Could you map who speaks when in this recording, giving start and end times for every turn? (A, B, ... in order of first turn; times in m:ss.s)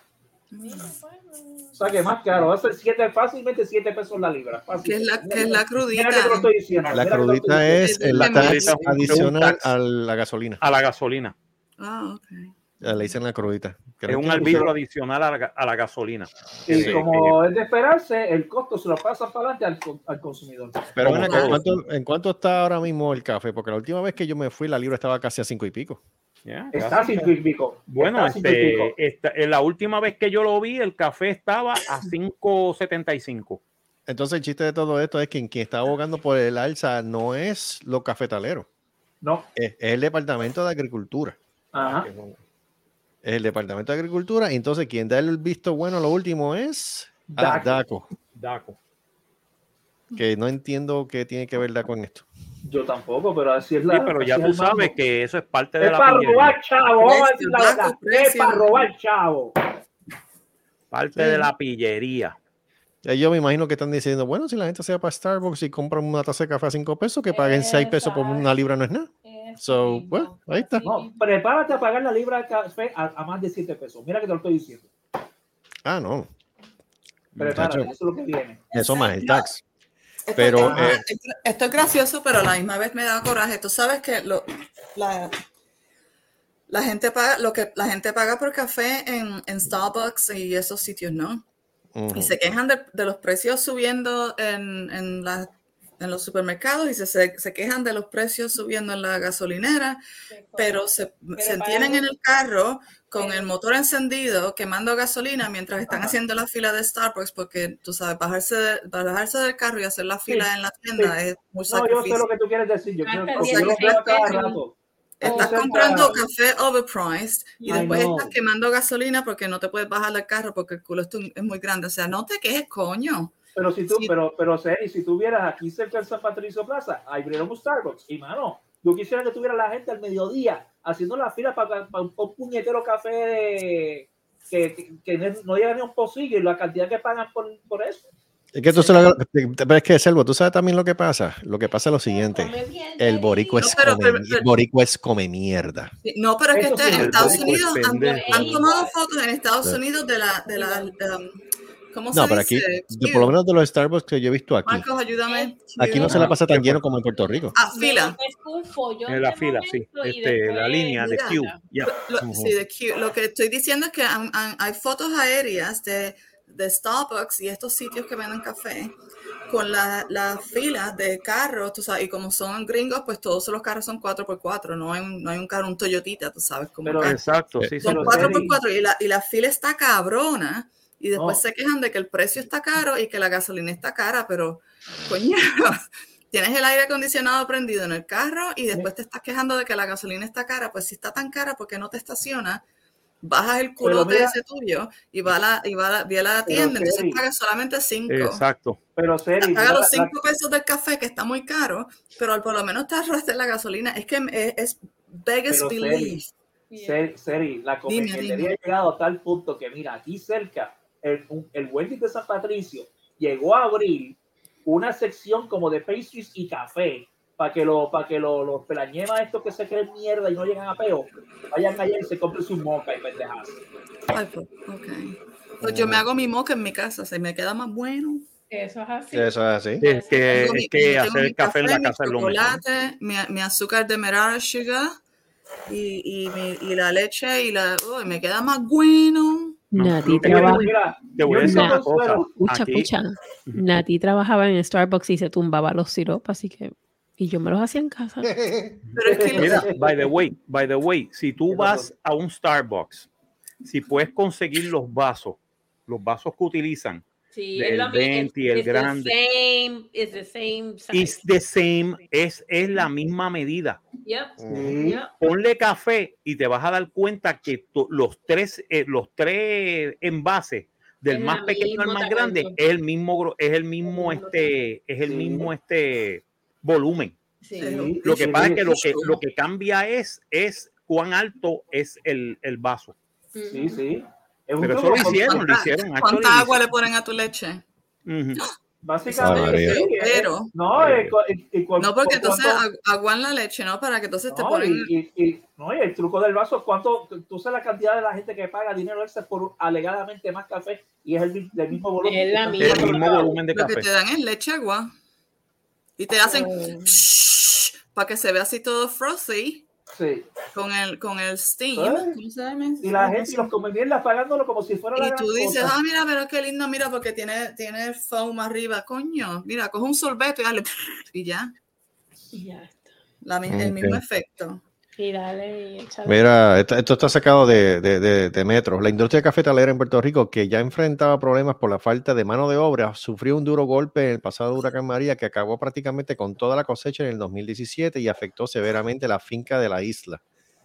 0:00.5-0:00.9 A
0:00.6-0:02.1 B
0:01.8-0:07.9 C
0:04.8-0:06.5 A
0:06.9-0:10.6 D
0:07.7-0:09.2 A
0:08.1-0:09.7 E
0:10.6-0:11.4 E
0:11.8-0:13.0 A
0:12.8-0:14.7 D
0:14.1-0:17.4 E
0:14.3-0:14.7 C
0:16.7-0:21.0 C
0:16.7-0:17.0 D
0:21.0-0:26.0 D
0:21.0-0:21.6 E
0:21.0-0:21.6 A
0:26.5-0:27.3 E
0:26.7-0:28.9 C
0:27.9-0:33.6 E
0:34.1-0:38.7 D
0:39.2-0:39.5 C
0:39.6-0:42.4 D
0:41.7-0:42.1 C
0:43.2-0:48.1 D
0:47.3-0:47.8 C
0:48.4-0:48.8 E
0:50.2-0:52.3 D
0:52.6-0:54.9 C
0:53.9-0:56.6 E
0:55.8-0:59.5 C
0:57.0-0:58.9 A
1:00.9-1:02.4 E
1:01.2-1:01.5 D
1:03.0-1:10.8 D
1:07.3-1:08.6 B
1:09.2-1:11.8 B
1:10.8-1:14.9 C
1:15.8-1:16.3 D
1:17.4-1:17.9 D
1:17.4-1:18.7 C
1:18.7-1:19.5 A
1:18.7-1:19.6 D
1:20.3-1:25.4 A
1:20.4-1:21.0 D
1:20.5-1:21.0 C
1:26.7-1:31.4 A
1:32.0-1:32.4 D
1:32.1-1:40.0 A
1:40.3-1:40.8 B
1:40.6-1:52.3 A
1:41.4-1:42.1 B
1:43.1-1:43.5 B
1:51.7-1:56.2 C
1:53.0-1:54.6 B
1:53.4-1:54.4 A
1:55.2-2:03.4 A
1:55.2-1:56.2 B
1:57.6-1:58.1 B
1:57.7-1:58.3 C
2:03.6-2:18.1 C
2:18.5-2:25.9 D
2:22.1-2:23.9 B
2:23.6-2:24.5 A
2:26.0-2:31.3 A
2:26.5-2:27.6 C
2:26.9-2:28.7 E
2:27.8-2:28.9 B
2:30.5-2:30.9 B
2:31.9-2:33.4 A
2:32.1-2:34.8 D
2:34.7-2:36.4 A
2:35.3-2:35.6 B
2:35.8-2:37.6 D
2:36.0-2:36.8 E
2:37.6-2:38.2 A
2:37.6-2:41.6 B
2:39.1-2:41.9 E
2:41.1-2:48.9 A
2:42.2-2:42.5 D
2:49.5-2:57.2 A
2:56.8-2:57.2 C
2:57.0-2:58.5 E
2:57.8-2:58.6 C
2:57.8-3:05.8 A
3:01.1-3:01.4 C
3:06.3-3:12.6 A
3:13.2-3:18.4 A
3:13.8-3:14.4 C
3:16.5-3:17.2 C
3:18.1-3:18.8 E
3:19.0-3:20.1 C
3:19.4-3:26.3 A
3:25.5-3:26.2 C
3:26.7-3:27.0 B
3:26.8-3:43.6 C
3:27.9-3:28.6 A
3:44.1-3:48.3 A
3:45.6-3:46.0 D
3:48.5-3:50.7 B
3:49.1-3:49.8 D
3:49.8-3:52.6 E
3:50.2-3:55.0 A
3:55.7-3:59.6 A
3:59.7-4:00.7 B
3:59.7-4:02.9 E
4:00.1-4:02.3 C
4:01.3-4:01.8 B
4:02.4-4:08.3 B
4:08.2-4:08.8 D
4:08.9-4:13.1 E
4:09.0-4:09.7 A
4:09.0-4:10.1 C
4:11.5-4:11.9 C
4:13.6-4:17.0 E
4:17.3-4:21.2 B
4:17.6-4:19.1 E
4:20.9-4:23.8 E
4:24.0-4:25.2 B
4:24.4-4:24.8 D
4:24.5-4:25.0 C
4:25.2-4:37.2 E
4:31.1-4:32.6 B
4:33.8-4:34.7 B
4:35.0-4:35.5 C
4:37.6-4:38.8 C
4:37.6-4:39.2 A
4:38.0-4:43.0 E
4:43.4-4:43.8 B
4:43.5-4:45.5 C
4:44.6-4:46.6 E
4:45.0-4:47.6 A
4:48.1-4:48.4 E
4:48.8-4:52.6 C
4:49.1-4:50.5 A
4:49.2-4:49.8 D
4:51.8-4:54.9 A
4:54.3-5:03.4 C
5:02.0-5:02.8 B
5:02.6-5:03.9 E
5:02.6-5:04.9 A
5:06.0-5:09.7 A
5:06.2-5:06.9 B
5:09.9-5:10.3 C
5:10.5-5:13.5 A
5:11.8-5:12.2 C
5:12.8-5:15.8 C
5:15.0-5:21.5 A
5:22.3-5:22.9 B
5:23.2-5:24.6 A
5:23.5-5:24.0 D
5:25.0-5:26.2 B
5:26.1-5:40.2 D